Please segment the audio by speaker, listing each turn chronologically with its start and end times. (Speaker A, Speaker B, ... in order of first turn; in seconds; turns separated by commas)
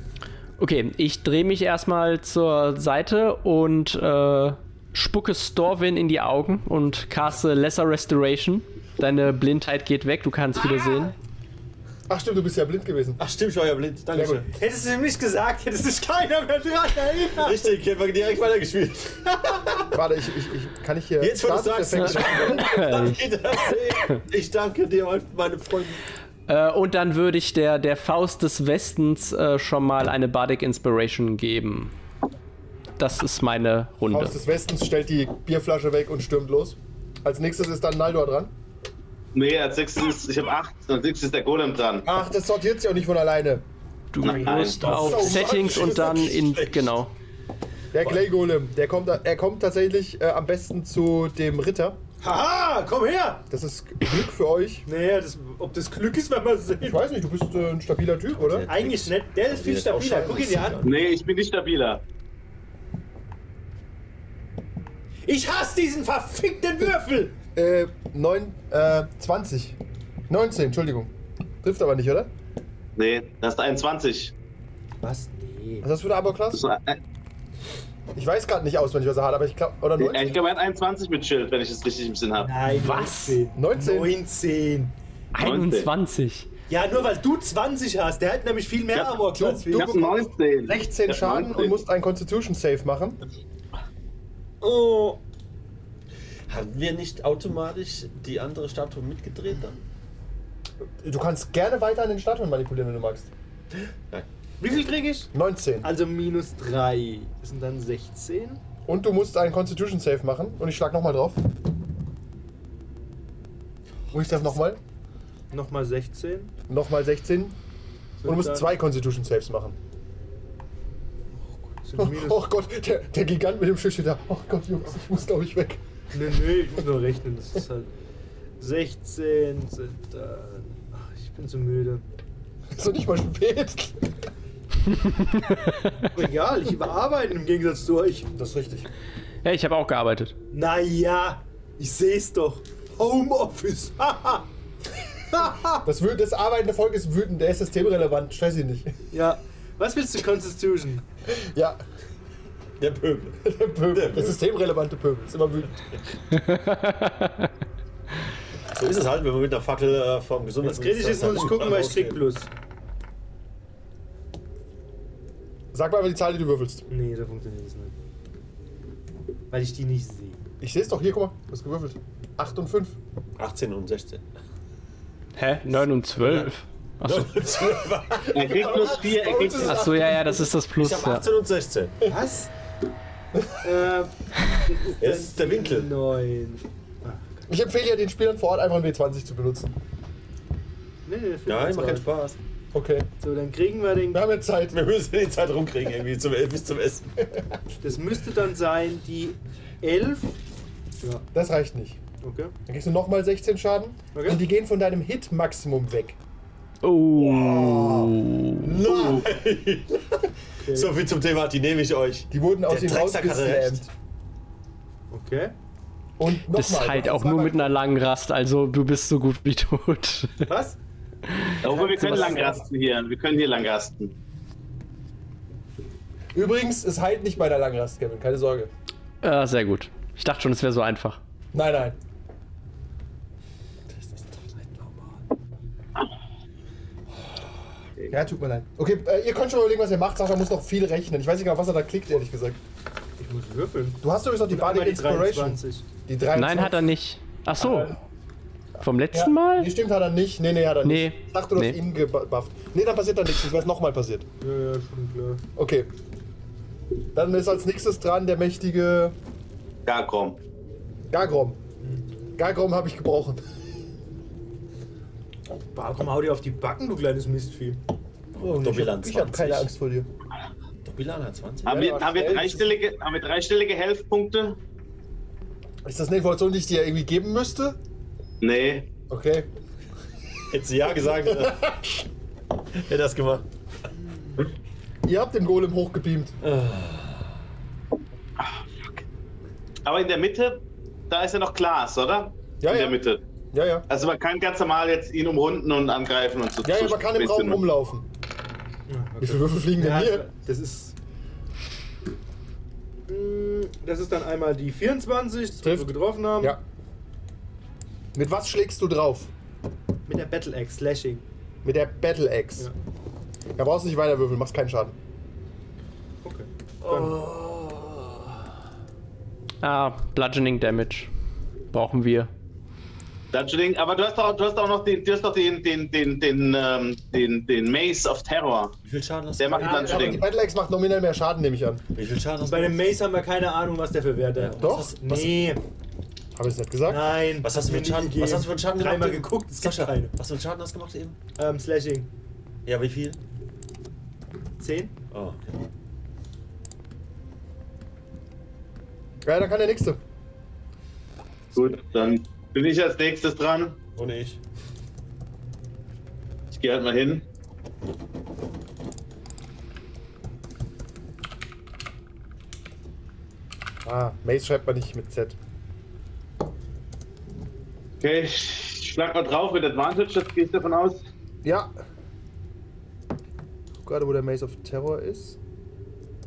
Speaker A: 0.6-11.2, Speaker B: 12.1-13.2, Speaker C: 13.2-14.5, Speaker B: 14.1-14.4, Speaker D: 14.5-17.6, Speaker C: 17.4-19.9, Speaker B: 19.9-22.7, Speaker C: 21.2-26.0, Speaker A: 22.0-23.2, Speaker A: 26.5-31.9, Speaker A: 33.0-34.4, Speaker B: 34.1-38.5, Speaker E: 39.3-42.1, Speaker B: 42.0-43.6, Speaker A: 44.1-47.1, Speaker E: 44.2-44.9, Speaker C: 44.3-47.0, Speaker B: 44.8-45.9, Speaker B: 47.9-52.0, Speaker C: 48.0-48.3, Speaker D: 52.2-53.5, Speaker B: 53.5-54.9, Speaker D: 54.9-57.1, Speaker B: 56.8-58.7, Speaker C: 58.4-61.0, Speaker D: 58.7-60.8, Speaker E: 60.8-62.0, Speaker D: 65.3-67.3, Speaker B: 67.6-71.1, Speaker B: 71.6-72.3, Speaker E: 73.0-74.3, Speaker D: 75.0-75.9, Speaker B: 75.8-76.6, Speaker E: 76.5-77.0, Speaker B: 78.2-80.4, Speaker E: 80.0-82.5, Speaker D: 82.4-85.0, Speaker A: 82.7-83.4, Speaker B: 83.5-84.2, Speaker A: 85.3-86.5, Speaker E: 85.4-85.9, Speaker D: 86.7-90.0, Speaker B: 89.2-93.2, Speaker E: 89.7-91.8, Speaker C: 94.6-95.2, Speaker C: 96.5-99.8, Speaker B: 101.0-103.3, Speaker D: 104.6-105.3, Speaker B: 105.3-105.9, Speaker D: 105.8-108.6, Speaker B: 108.9-111.4, Speaker B: 114.1-114.8, Speaker D: 115.5-116.5, Speaker B: 116.7-117.6, Speaker D: 118.2-118.7, Speaker B: 118.2-119.8, Speaker D: 121.6-122.5, Speaker B: 122.0-125.8, Speaker D: 126.1-127.9, Speaker D: 128.6-132.1, Speaker B: 132.8-134.1, Speaker A: 135.0-135.9, Speaker D: 136.0-138.3, Speaker B: 138.3-138.9, Speaker A: 139.4-140.3, Speaker D: 140.5-144.5, Speaker D: 145.3-145.9, Speaker B: 145.8-148.9, Speaker D: 149.1-151.1, Speaker B: 151.4-151.8, Speaker C: 152.8-154.4, Speaker B: 153.4-155.8, Speaker A: 156.3-157.5, Speaker C: 158.7-162.2, Speaker D: 160.6-162.5, Speaker B: 165.7-166.8, Speaker D: 166.9-167.9, Speaker D: 169.5-170.4, Speaker B: 170.6-173.0, Speaker C: 173.4-174.2, Speaker A: 175.4-177.5, Speaker C: 176.2-176.5, Speaker C: 177.0-179.0, Speaker B: 178.2-180.5, Speaker E: 178.3-179.9, Speaker A: 179.5-181.2, Speaker C: 180.7-181.9, Speaker D: 182.1-182.5, Speaker D: 183.6-184.2, Speaker D: 184.7-187.4, Speaker C: 185.0-185.9, Speaker B: 187.5-189.8, Speaker D: 191.1-192.1, Speaker C: 191.5-192.4, Speaker B: 192.7-193.1, Speaker D: 193.2-194.2, Speaker B: 194.1-194.8, Speaker C: 194.7-197.1, Speaker D: 197.8-200.4, Speaker B: 201.3-202.0, Speaker D: 202.2-202.5, Speaker B: 202.7-206.2, Speaker D: 204.1-204.4, Speaker A: 206.8-208.8, Speaker C: 207.1-210.2, Speaker B: 208.8-209.2, Speaker D: 210.7-210.9, Speaker C: 210.7-213.8, Speaker B: 212.3-213.9, Speaker D: 215.1-215.5, Speaker B: 216.2-217.7, Speaker A: 216.5-220.5, Speaker D: 220.4-220.8, Speaker A: 221.3-222.4, Speaker E: 221.6-224.1, Speaker B: 221.7-222.6, Speaker D: 222.1-222.5, Speaker B: 226.3-228.7, Speaker A: 229.2-231.2, Speaker B: 231.5-232.0, Speaker C: 234.0-235.1, Speaker B: 238.1-242.6, Speaker D: 243.2-245.9, Speaker B: 244.0-246.9, Speaker A: 246.3-247.9, Speaker B: 247.6-247.9, Speaker A: 248.8-249.7, Speaker B: 249.1-254.3, Speaker A: 250.8-251.8, Speaker D: 254.4-255.4, Speaker B: 255.6-255.9, Speaker B: 257.1-259.1, Speaker E: 259.9-260.4, Speaker B: 261.1-261.6, Speaker B: 262.4-263.4, Speaker D: 265.7-267.8, Speaker B: 268.4-270.1, Speaker C: 268.4-269.7, Speaker C: 270.8-271.8, Speaker E: 271.6-274.6, Speaker B: 271.7-272.7, Speaker B: 275.8-277.8, Speaker E: 278.4-278.9, Speaker B: 279.1-279.5, Speaker C: 280.5-281.6, Speaker B: 281.3-281.9, Speaker C: 282.8-283.5, Speaker B: 285.1-286.3, Speaker C: 286.4-287.3, Speaker E: 288.4-289.0, Speaker E: 289.9-293.2, Speaker B: 292.6-293.0, Speaker B: 293.5-293.9, Speaker E: 293.9-297.6, Speaker B: 296.6-298.1, Speaker D: 298.9-300.9, Speaker B: 299.2-300.2, Speaker D: 303.1-306.6, Speaker B: 305.6-306.6, Speaker B: 308.1-309.3, Speaker D: 310.1-311.2, Speaker B: 311.6-312.7, Speaker B: 313.6-315.0, Speaker D: 316.2-317.1, Speaker C: 316.8-318.2, Speaker A: 319.6-321.1, Speaker A: 321.7-322.3, Speaker E: 323.3-328.8, Speaker C: 328.8-330.2, Speaker E: 329.4-330.2, Speaker B: 329.6-331.8, Speaker D: 329.6-330.1, Speaker C: 332.0-332.9, Speaker D: 332.4-335.6, Speaker C: 334.4-335.5, Speaker B: 334.6-334.9, Speaker B: 336.4-337.1, Speaker D: 336.9-340.1, Speaker C: 337.4-341.2, Speaker D: 341.4-342.1, Speaker C: 342.7-343.2, Speaker D: 344.6-344.9, Speaker C: 345.1-345.6, Speaker B: 349.2-350.0, Speaker E: 351.6-353.8, Speaker C: 354.0-354.4, Speaker E: 356.5-357.2, Speaker B: 363.9-365.4, Speaker E: 368.0-371.0, Speaker B: 371.4-371.7, Speaker B: 373.8-375.4